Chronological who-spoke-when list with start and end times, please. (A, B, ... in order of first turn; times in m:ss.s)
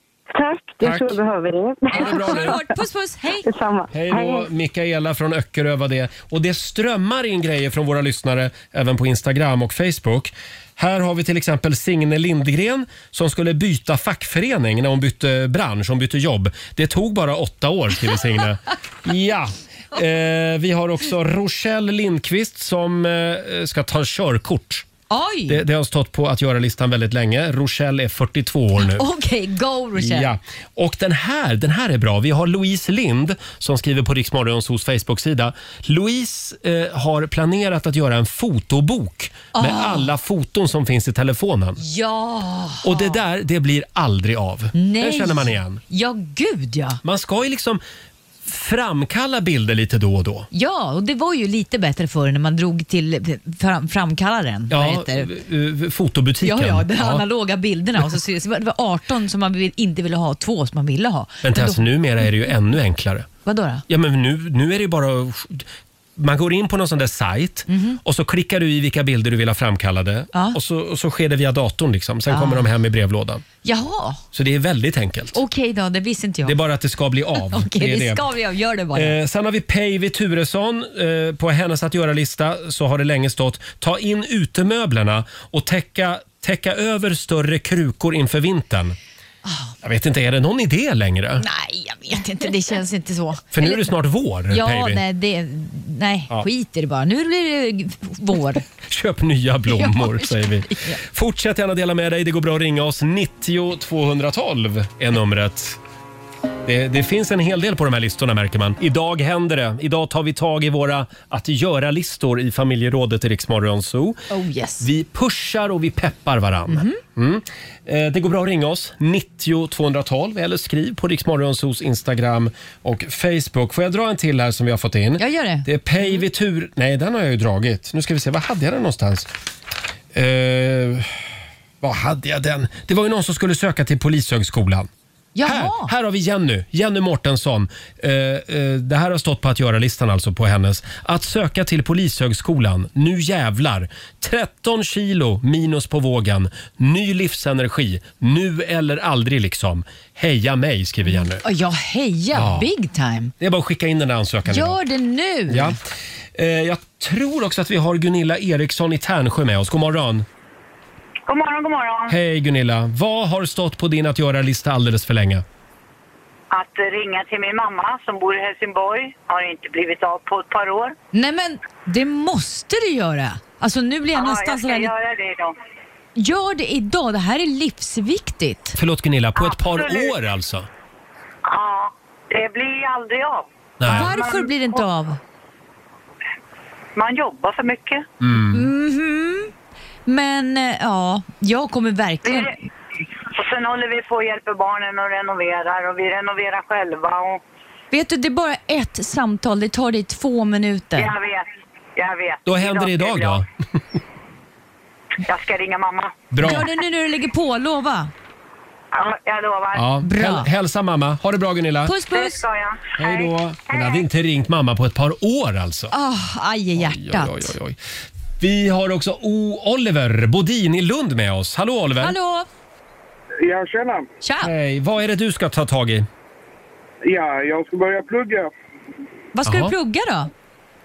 0:00.3-0:02.5 A
0:00.8-0:01.2 B
0:01.9-0:02.6 B
0:02.0-0:03.4 C
0:03.4-0:04.5 A
0:03.9-0:24.9 B
0:25.1-0:25.6 C
0:25.5-0:29.1 B
0:28.8-0:30.4 C
0:30.0-0:41.8 B
0:39.5-0:40.1 C
0:41.8-0:43.2 C
0:42.8-0:45.8 B
0:44.7-0:47.0 C
0:47.0-0:47.8 B
0:48.4-0:50.5 B
0:50.5-0:55.3 C
0:54.7-0:57.2 B
0:56.4-1:02.3 C
1:01.4-1:03.3 B
1:03.4-1:03.8 C
1:03.9-1:05.7 B
1:06.2-1:13.4 B
1:07.7-1:08.0 C
1:12.3-1:12.7 C
1:13.6-1:14.2 C
1:14.3-1:15.4 B
1:15.3-1:16.6 C
1:16.4-1:18.2 B
1:17.4-1:19.2 C
1:18.9-1:29.0 B
1:29.4-1:29.7 C
1:29.8-1:31.4 B
1:31.4-1:33.9 C
1:33.5-1:35.0 B
1:34.5-1:38.7 C
1:38.9-1:45.8 B
1:39.7-1:41.0 C
1:46.6-1:54.2 B
1:54.3-1:54.9 C
1:54.8-2:09.3 B
1:56.7-1:57.0 C
2:05.2-2:06.2 C
2:10.1-2:11.2 B
2:11.8-2:14.9 B
2:15.4-2:15.9 C
2:15.4-2:31.4 B
2:31.1-2:33.3 C
2:32.3-2:32.7 B
2:33.4-2:34.8 B
2:34.5-2:35.8 C
2:35.5-2:35.8 B
2:36.4-2:40.3 B
2:41.3-2:42.2 D
2:42.1-2:45.4 B
2:46.5-2:51.0 D
2:51.1-2:54.9 C
2:54.1-2:55.6 D
2:56.2-2:58.8 C
2:58.8-3:00.7 B
2:59.4-3:00.2 D
3:01.5-3:04.9 D
3:03.8-3:04.2 B
3:03.8-3:05.2 C
3:07.0-3:08.0 D
3:08.2-3:08.7 B
3:08.5-3:09.5 C
3:10.1-3:12.6 C
3:12.2-3:12.5 D
3:13.2-3:17.4 D
3:17.9-3:21.1 C
3:21.0-3:23.4 D
3:22.5-3:23.5 B
3:25.2-3:26.3 D
3:26.3-3:26.7 B
3:26.4-3:28.1 C
3:28.9-3:29.9 D
3:29.7-3:32.0 B
3:30.0-3:30.5 C
3:31.8-3:32.4 C
3:32.1-3:34.1 D
3:33.0-3:35.9 B
3:35.9-3:37.5 C
3:36.8-3:37.8 B
3:38.4-3:42.2 B
3:42.0-3:42.5 C
3:43.4-3:44.1 E
3:44.2-3:44.5 C
3:44.4-3:46.1 B
3:47.0-3:48.5 E
3:49.4-3:50.3 C
3:49.5-3:49.7 B